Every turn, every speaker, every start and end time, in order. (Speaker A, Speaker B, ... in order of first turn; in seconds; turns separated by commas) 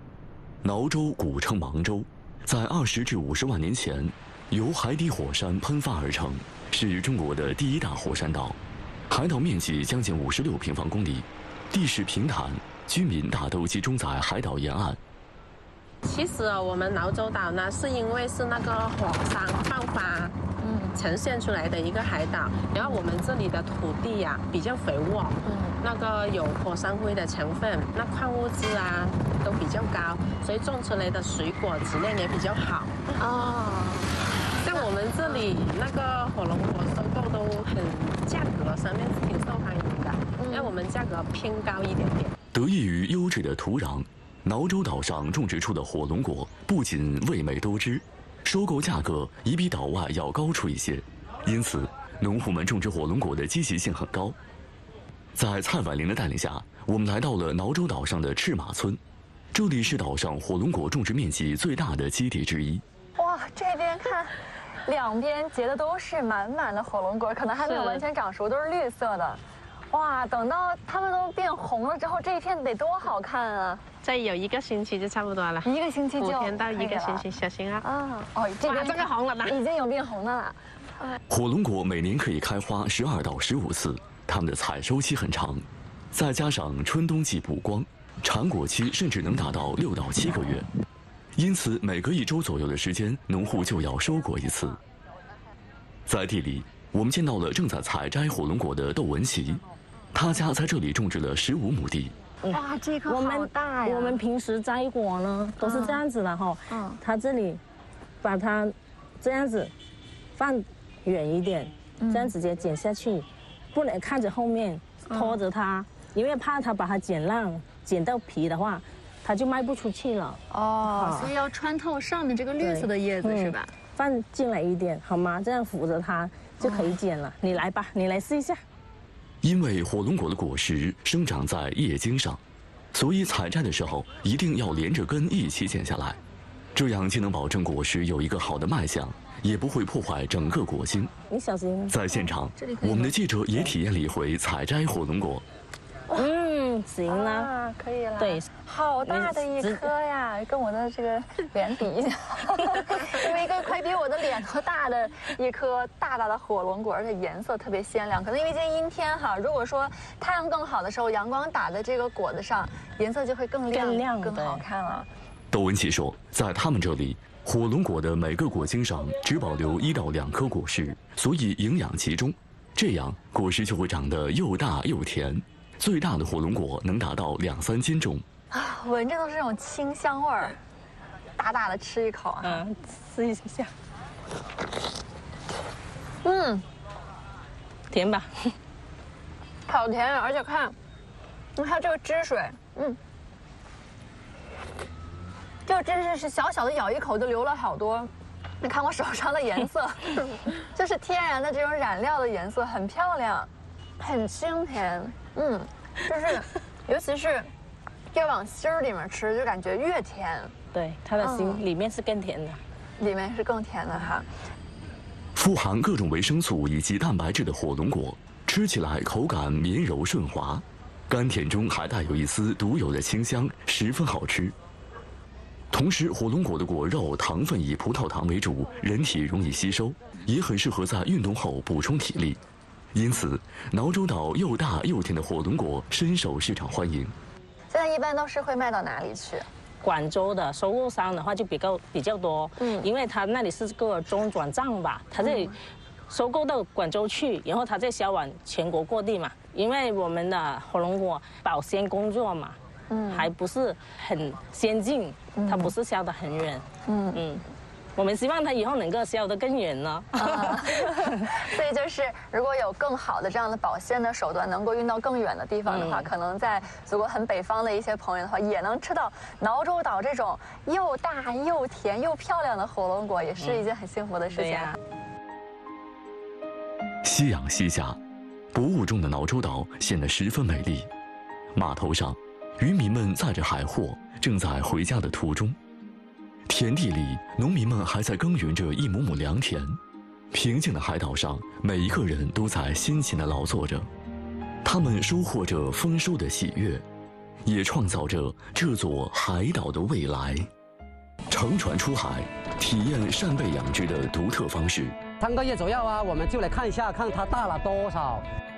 Speaker A: 0.6-8.6, Speaker A: 9.1-15.0, Speaker B: 16.0-20.4, Speaker C: 20.6-20.9, Speaker B: 20.9-34.0, Speaker C: 25.4-25.8, Speaker B: 34.6-42.3, Speaker C: 34.7-35.5, Speaker C: 40.4-40.8, Speaker A: 42.5-54.4, Speaker A: 55.4-59.0, Speaker A: 59.5-62.8, Speaker C: 63.2-64.3, Speaker C: 64.9-69.4, Speaker D: 67.7-68.0, Speaker C: 69.9-73.8, Speaker B: 74.0-77.8, Speaker C: 75.6-77.3, Speaker C: 77.8-80.6, Speaker B: 78.7-79.6, Speaker A: 81.3-90.7, Speaker A: 91.4-94.8, Speaker A: 96.1-102.2, Speaker D: 102.4-107.6, Speaker C: 102.5-104.2, Speaker C: 105.6-106.0, Speaker C: 106.7-107.0, Speaker D: 108.2-109.7, Speaker D: 110.4-121.3, Speaker C: 112.0-112.3, Speaker C: 115.1-115.4, Speaker C: 120.5-123.7, Speaker D: 122.6-128.6, Speaker C: 126.6-127.0, Speaker A: 129.4-132.4, Speaker A: 132.9-136.2, Speaker A: 136.8-141.1, Speaker D: 141.3-142.0, Speaker A: 141.9-145.4, Speaker C: 142.6-143.1, Speaker D: 146.1-147.6, Speaker C: 147.1-165.1, Speaker D: 148.2-148.5, Speaker D: 149.0-149.9, Speaker D: 163.7-164.7, Speaker A: 165.5-178.2, Speaker C: 178.5-180.6, Speaker C: 181.4-182.6, Speaker D: 182.4-183.7, Speaker C: 186.2-186.6, Speaker D: 187.9-188.5, Speaker C: 189.7-190.8, Speaker C: 191.6-193.0, Speaker C: 195.7-207.5, Speaker C: 208.1-210.5, Speaker D: 210.7-212.6, Speaker C: 211.2-211.6, Speaker C: 213.0-214.2, Speaker A: 215.4-224.6, Speaker A: 225.7-232.4, Speaker A: 232.9-237.2, Speaker C: 237.7-239.5, Speaker D: 239.8-245.6, Speaker C: 242.6-242.9, Speaker C: 245.2-245.5, Speaker D: 246.1-252.6, Speaker C: 252.9-253.3, Speaker D: 253.1-257.4, Speaker C: 255.4-255.7, Speaker C: 256.9-257.2, Speaker D: 258.0-261.0, Speaker C: 260.2-274.8, Speaker D: 265.7-266.1, Speaker D: 273.4-273.7, Speaker D: 274.3-274.8, Speaker A: 277.0-278.0, Speaker A: 278.5-280.9, Speaker A: 281.5-285.6, Speaker A: 286.5-289.8, Speaker A: 290.3-293.9, Speaker A: 294.6-296.8, Speaker A: 297.5-300.5, Speaker A: 301.3-305.0, Speaker E: 305.2-308.3